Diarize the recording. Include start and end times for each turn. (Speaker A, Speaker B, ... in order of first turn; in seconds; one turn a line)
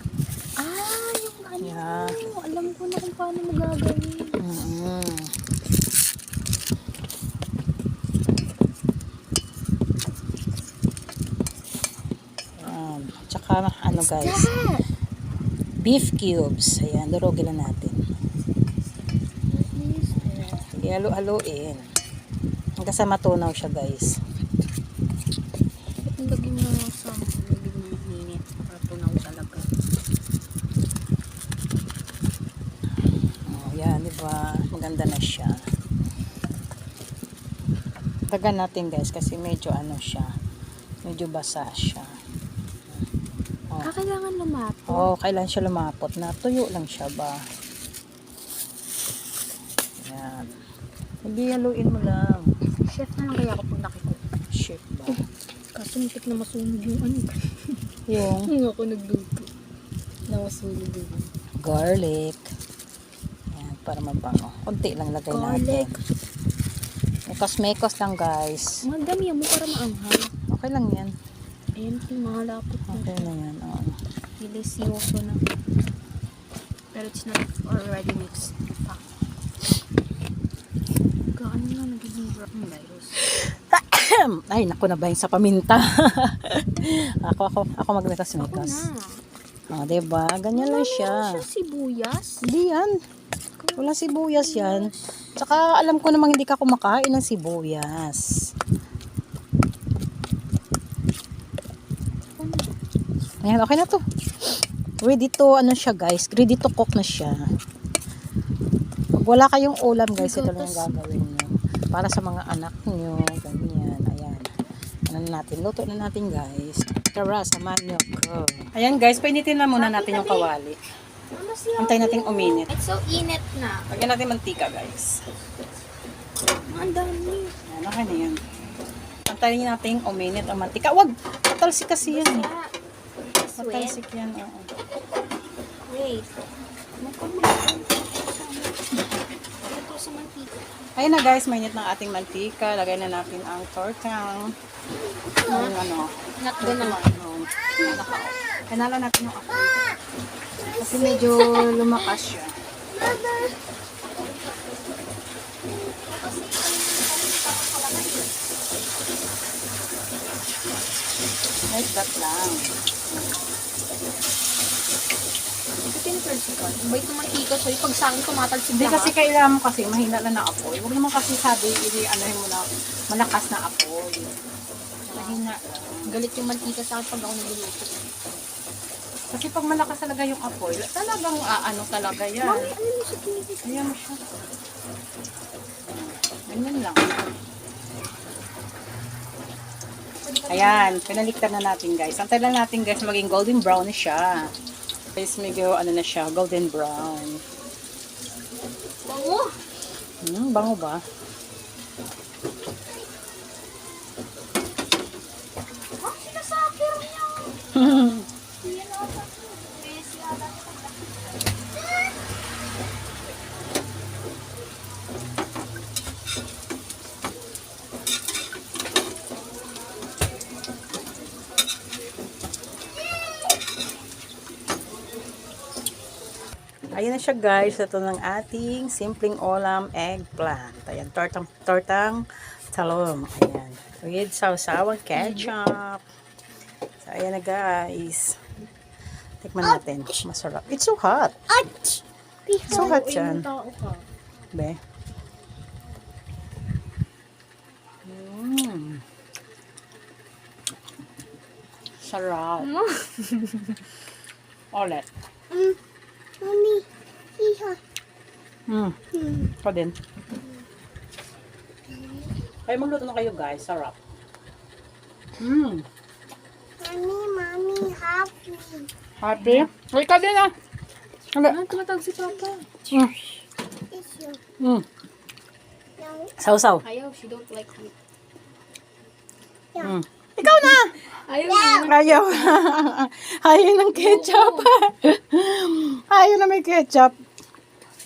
Speaker A: 0.6-4.4
Speaker B: 1.6-2.2
Speaker B: 4.4-5.3
Speaker B: 12.6-14.5
Speaker A: 13.9-14.8
Speaker B: 15.8-18.0
Speaker A: 19.5-20.6
Speaker B: 20.1-21.9
Speaker B: 22.8-24.2
Speaker A: 26.0-29.6
Speaker B: 33.5-35.6
Speaker B: 38.3-40.3
Speaker B: 41.0-42.1
Speaker A: 43.8-45.1
Speaker B: 44.9-47.4
Speaker B: 50.0-50.5
Speaker B: 51.2-52.5
Speaker A: 52.9-54.2
Speaker B: 54.5-55.2
Speaker A: 55.7-59.5
Speaker B: 58.1-58.5
Speaker A: 60.3-61.3
Speaker B: 61.6-62.4
Speaker B: 63.5-66.0
Speaker A: 65.3-66.0
Speaker B: 67.3-68.8
Speaker A: 68.8-70.3
Speaker B: 70.5-71.1
Speaker A: 71.8-73.3
Speaker B: 72.9-74.0
Speaker A: 74.4-75.4
Speaker A: 76.9-79.0
Speaker A: 81.3-83.2
Speaker B: 83.2-88.9
Speaker A: 88.4-89.2
Speaker B: 89.7-91.4
Speaker A: 90.5-92.4
Speaker B: 92.4-92.9
Speaker A: 93.6-95.1
Speaker B: 93.8-98.4
Speaker A: 102.4-102.7
Speaker B: 103.4-104.0
Speaker B: 105.0-107.4
Speaker B: 109.2-114.5
Speaker A: 110.2-111.0
Speaker B: 115.1-120.8
Speaker A: 119.7-120.5
Speaker A: 121.3-123.9
Speaker B: 121.8-122.7
Speaker B: 123.9-125.2
Speaker A: 126.7-127.5
Speaker B: 127.7-128.4
Speaker B: 129.3-132.5
Speaker A: 132.0-132.7
Speaker A: 133.4-134.0
Speaker B: 133.6-134.7
Speaker A: 135.9-136.3
Speaker A: 137.0-138.8
Speaker A: 139.6-140.6
Speaker B: 141.0-144.5
Speaker A: 145.4-145.8
Speaker B: 145.5-149.8
Speaker A: 146.4-147.1
Speaker C: 150.8-151.3
Speaker B: 150.8-152.5
Speaker A: 151.5-152.1
Speaker A: 152.9-153.5
Speaker C: 153.0-153.4
Speaker A: 154.2-154.6
Speaker A: 156.0-158.3
Speaker B: 161.7-162.7
Speaker A: 165.9-169.2
Speaker B: 168.8-174.3
Speaker A: 175.1-175.4
Speaker B: 175.1-176.1
Speaker A: 176.1-178.0
Speaker B: 179.3-182.7
Speaker A: 182.4-183.9
Speaker B: 183.6-184.2
Speaker B: 185.9-187.2
Speaker A: 190.2-191.2
Speaker B: 190.5-194.5
Speaker B: 195.1-197.4
Speaker A: 199.1-199.6
Speaker B: 200.2-201.0
Speaker A: 206.0-211.1
Speaker B: 207.7-208.3
Speaker B: 226.9-236.0
Speaker A: 235.1-235.5
Speaker B: 237.0-238.4
Speaker B: 239.4-241.5
Speaker C: 241.5-243.0
Speaker A: 242.7-244.1
Speaker B: 242.7-243.4
Speaker B: 244.5-244.8
Speaker B: 248.0-249.0
Speaker B: 252.0-252.8
Speaker A: 252.7-253.8
Speaker B: 254.7-255.1
Speaker C: 255.5-255.8
Speaker C: 256.4-256.9
Speaker C: 257.4-257.8
Speaker B: 258.7-259.0
Speaker B: 259.6-259.9
Speaker B: 262.6-264.0
Speaker B: 265.4-265.9
Speaker C: 266.8-268.9
Speaker B: 269.2-270.5
Speaker A: 269.4-269.7
Speaker B: 271.3-271.6
Speaker A: 271.4-273.1
Speaker B: 272.9-273.3
Speaker C: 273.9-274.4
Speaker B: 274.6-274.9
Speaker C: 276.0-276.3
Speaker B: 276.4-276.8
Speaker A: 276.8-277.9
Speaker B: 279.8-281.0
Speaker A: 281.1-282.3
Speaker B: 281.5-287.1
Speaker A: 283.9-284.7